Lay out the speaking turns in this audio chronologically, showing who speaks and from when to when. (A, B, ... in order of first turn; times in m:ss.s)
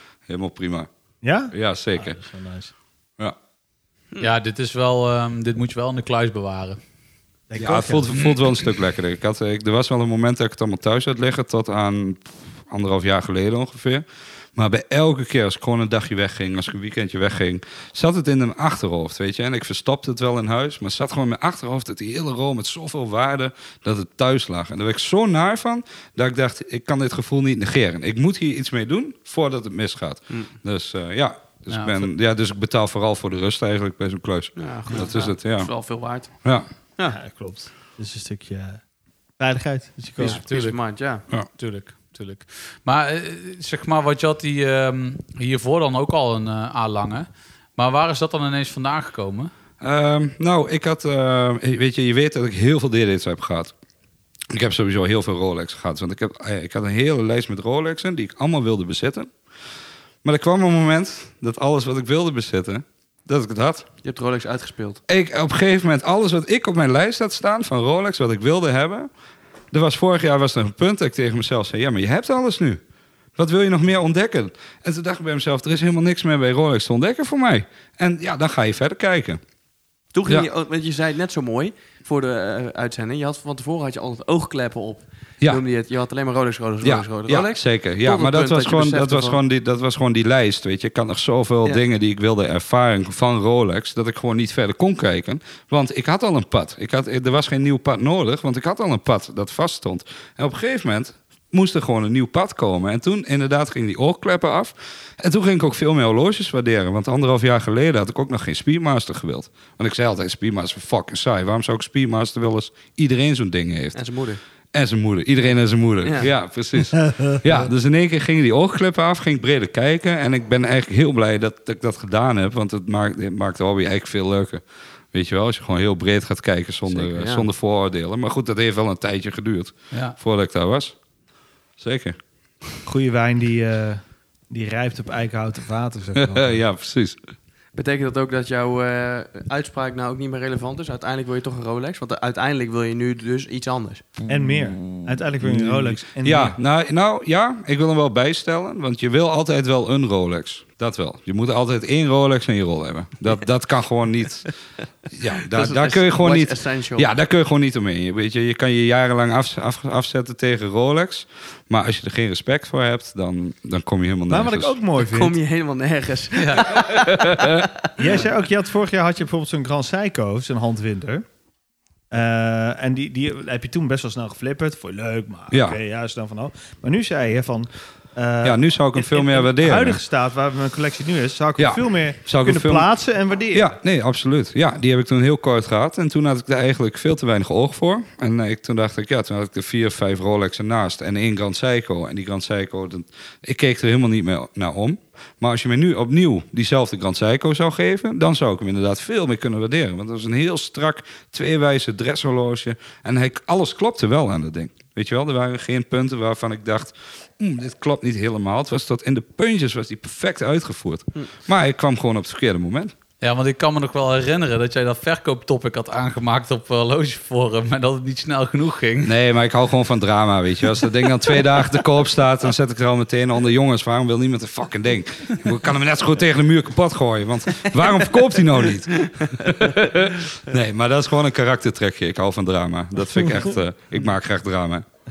0:00.3-0:00.9 A
0:01.2-0:02.7 B
0:01.5-0:02.2 A
0:04.2-0:06.8 C
0:07.5-0:08.3 B
0:07.6-0:14.0 A
0:14.6-0:35.7 A
0:31.7-0:32.1 C
0:34.6-0:36.3 D
0:37.1-0:38.8 B
0:39.4-0:40.4 B
0:40.2-0:40.8 C
0:40.2-0:41.2 D
0:41.6-0:49.5 C
0:49.8-0:53.7 A
0:54.5-0:59.3 A
1:00.2-1:03.8 A
1:04.0-1:05.0 D
1:05.1-1:09.1 A
1:09.7-1:12.8 A
1:13.4-1:19.4 A
1:20.1-1:29.4 D
1:26.8-1:54.0 A
1:54.0-1:54.4 D
1:54.7-2:04.6 A
1:56.0-1:56.3 D
2:05.1-2:11.0 A
2:06.9-2:07.5 D
2:11.8-2:12.2 A
2:12.8-2:16.6 B
2:16.2-2:17.2 A
2:17.8-2:24.1 D
2:24.3-2:26.6 B
2:24.3-2:34.5 A
2:35.1-2:44.8 A
2:35.5-2:37.1 D
2:44.3-2:45.4 B
2:45.0-2:47.7 D
2:46.4-2:46.7 C
2:46.9-2:47.6 A
2:48.0-2:51.2 B
2:52.1-3:03.8 B
2:55.5-2:55.8 A
2:58.4-3:00.0 A
3:01.6-3:02.9 A
3:03.5-3:32.9 A
3:33.2-3:39.1 C
3:39.0-3:54.8 A
3:49.0-3:49.7 D